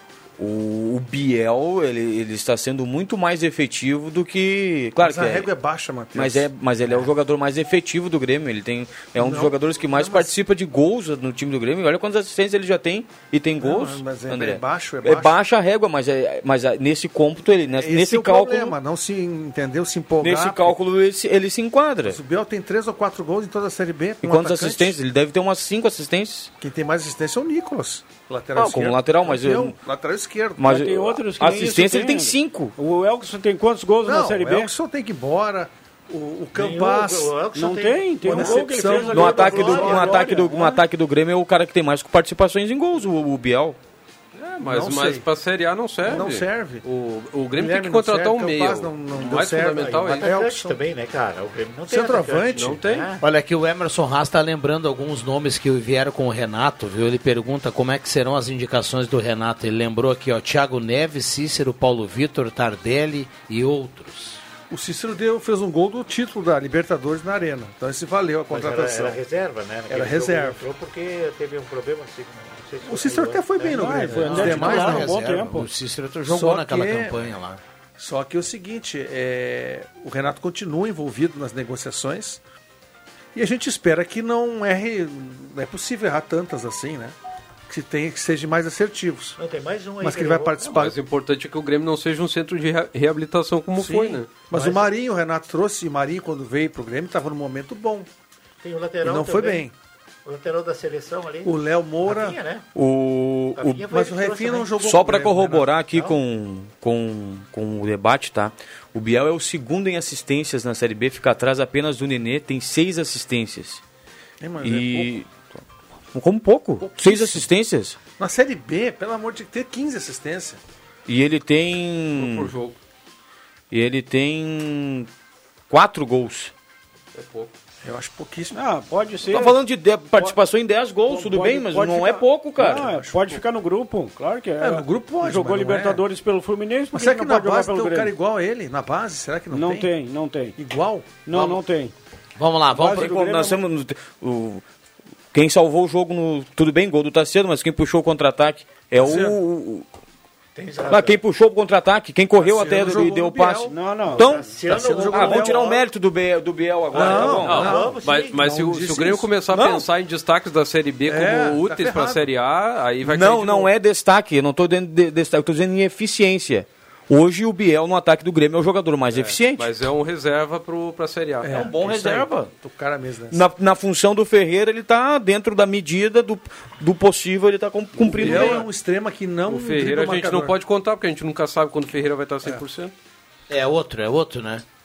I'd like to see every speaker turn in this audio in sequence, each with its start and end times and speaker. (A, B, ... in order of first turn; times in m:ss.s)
0:00.4-0:05.5 A
0:05.0-0:07.1 B
0:06.1-0:18.8 A
0:09.2-0:10.3 B
0:13.6-0:15.4 B
0:17.8-0:20.8 B
0:20.2-0:22.2 A
0:22.0-0:25.0 B
0:24.2-0:26.5 A
0:26.6-0:30.8 B
0:28.5-0:29.8 A
0:30.6-0:32.7 A
0:30.6-0:34.7 C
0:34.0-0:37.3 B
0:36.5-0:40.3 D
0:37.5-0:40.8 C
0:38.2-0:40.2 B
0:39.1-0:43.8 A
0:44.4-0:50.4 E
0:44.6-0:45.3 B
0:46.0-0:46.8 B
0:47.6-0:50.8 B
0:49.2-0:53.2 D
0:51.9-0:52.8 B
0:52.5-0:53.1 E
0:53.2-1:04.4 F
1:04.7-1:09.2 B
1:08.5-1:15.0 D
1:09.9-1:10.6 B
1:12.8-1:15.1 B
1:13.6-1:15.7 C
1:14.1-1:17.6 F
1:16.2-1:17.3 B
1:18.0-1:22.4 B
1:23.3-1:27.2 B
1:27.7-1:29.4 B
1:29.4-1:30.8 D
1:30.0-1:31.0 B
1:30.7-1:34.4 E
1:33.7-1:38.1 B
1:34.5-1:34.9 D
1:38.6-1:39.7 D
1:39.0-1:39.7 B
1:40.2-1:42.6 D
1:41.4-1:42.4 B
1:42.7-1:43.8 A
1:43.6-1:44.8 D
1:43.8-1:45.8 B
1:44.8-1:53.8 A
1:54.4-1:55.2 B
1:54.6-1:55.4 A
1:56.1-1:58.0 A
1:56.8-1:57.5 B
1:58.2-2:00.6 B
2:01.1-2:02.5 A
2:02.1-2:02.8 E
2:03.7-2:05.1 A
2:05.7-2:06.5 A
2:07.1-2:07.5 E
2:07.8-2:08.6 B
2:08.5-2:09.6 C
2:09.3-2:12.9 A
2:11.0-2:18.1 C
2:12.6-2:13.4 B
2:14.6-2:16.0 B
2:16.9-2:19.9 B
2:19.5-2:20.6 C
2:20.6-2:21.2 B
2:21.2-2:21.9 C
2:21.3-2:21.6 F
2:22.4-2:23.2 F
2:22.7-2:23.6 C
2:23.0-2:24.6 A
2:25.3-2:29.8 A
2:29.0-2:29.4 B
2:30.6-2:31.2 D
2:30.9-2:34.5 A
2:32.4-2:35.8 B
2:33.7-2:34.2 C
2:34.1-2:35.8 D
2:35.1-2:37.7 A
2:36.9-2:39.4 B
2:37.0-2:38.5 D
2:37.3-2:43.7 E
2:39.5-2:39.8 A
2:41.0-2:42.2 B
2:43.0-2:49.7 A
2:49.1-2:51.6 E
2:51.4-2:53.4 B
2:51.5-2:52.5 A
2:53.3-2:58.7 A
2:58.0-2:58.6 E
2:58.0-3:00.6 B
2:59.4-3:02.9 E
3:03.5-3:04.6 F